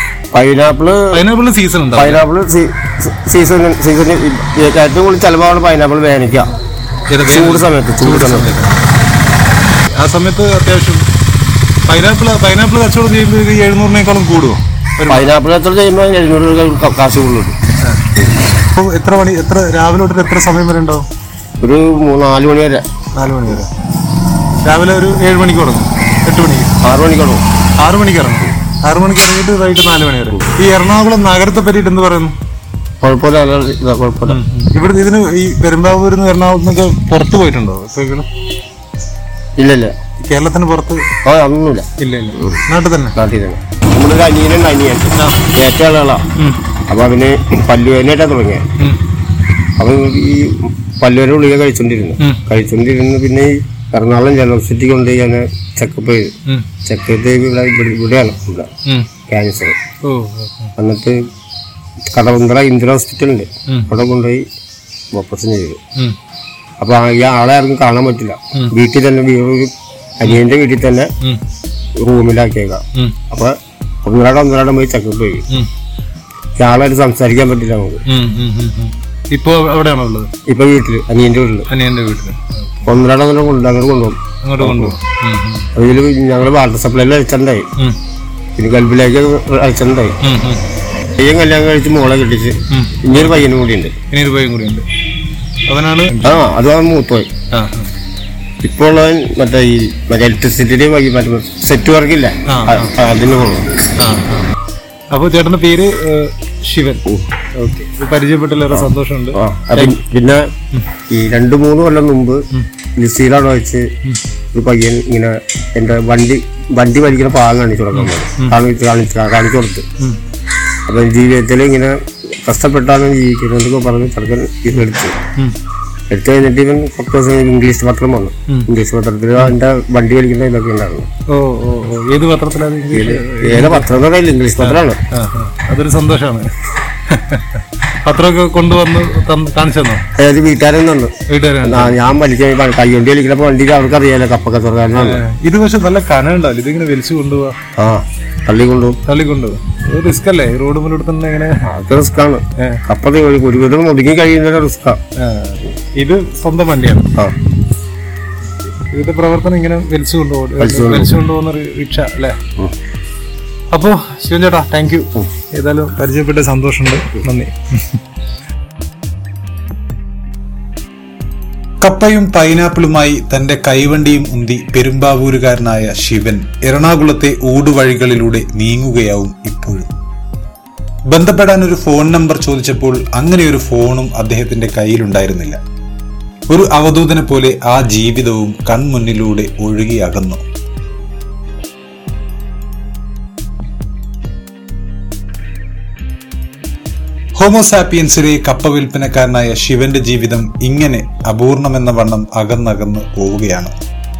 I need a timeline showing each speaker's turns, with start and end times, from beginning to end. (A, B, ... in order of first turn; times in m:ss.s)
0:00.3-0:01.2 A
0:01.1-0:02.2 B
0:02.0-0:06.5 A
0:07.1-0:08.9 B
0:07.2-0:08.6 A
0:09.9-0:11.0 B
0:11.8-0:15.3 B
0:15.1-0:17.6 A
0:17.8-0:21.0 B
0:21.6-0:22.8 A
0:23.1-0:23.7 B
0:24.6-0:26.7 B
0:26.8-0:27.4 A
0:27.8-0:32.3 B
0:33.0-0:34.4 A
0:34.3-0:38.3 B
0:39.6-0:39.9 A
0:40.2-0:41.0 B
0:41.2-0:41.9 A
0:42.0-0:43.2 B
0:43.1-0:46.2 A
0:45.1-0:45.4 B
0:46.4-0:46.6 B
0:46.9-0:48.6 A
0:48.8-0:49.0 B
0:49.8-0:56.3 A
0:56.8-0:58.7 A
0:58.8-0:59.1 B
0:59.3-0:59.8 A
1:00.0-1:00.7 B
1:00.8-1:01.2 A
1:02.1-1:04.4 A
1:03.7-1:03.9 B
1:05.1-1:05.8 A
1:06.8-1:11.1 A
1:12.0-1:15.4 A
1:16.6-1:18.0 A
1:18.0-1:20.3 B
1:20.5-1:21.7 A
1:21.7-1:22.9 B
1:22.8-1:24.9 A
1:24.4-1:25.7 B
1:25.7-1:27.6 A
1:28.6-1:30.2 A
1:30.2-1:30.6 B
1:31.2-1:33.9 A
1:32.7-1:33.5 B
1:34.1-1:34.8 B
1:35.7-1:36.4 B
1:36.2-1:37.3 A
1:37.5-1:37.9 B
1:38.6-1:43.7 A
1:42.4-1:42.9 B
1:44.0-1:44.5 B
1:45.1-1:47.0 B
1:47.5-1:50.0 B
1:48.7-1:50.5 A
1:51.1-1:52.4 A
1:53.0-1:53.8 A
1:54.5-1:59.8 A
1:57.9-1:58.6 B
2:00.9-2:05.2 A
2:06.1-2:11.1 A
2:11.3-2:13.9 B
2:12.9-2:15.0 A
2:14.6-2:20.0 B
2:20.2-2:21.1 A
2:21.3-2:22.0 B
2:21.6-2:25.2 A
2:25.0-2:27.6 B
2:27.8-2:29.0 A
2:29.0-2:31.7 B
2:31.6-2:35.0 A
2:35.2-2:37.1 B
2:38.8-2:42.4 B
2:40.6-2:41.1 A
2:43.7-2:48.0 B
2:51.8-2:59.9 C
3:01.1-3:05.6 C
3:06.5-3:10.4 C
3:17.4-3:23.7 C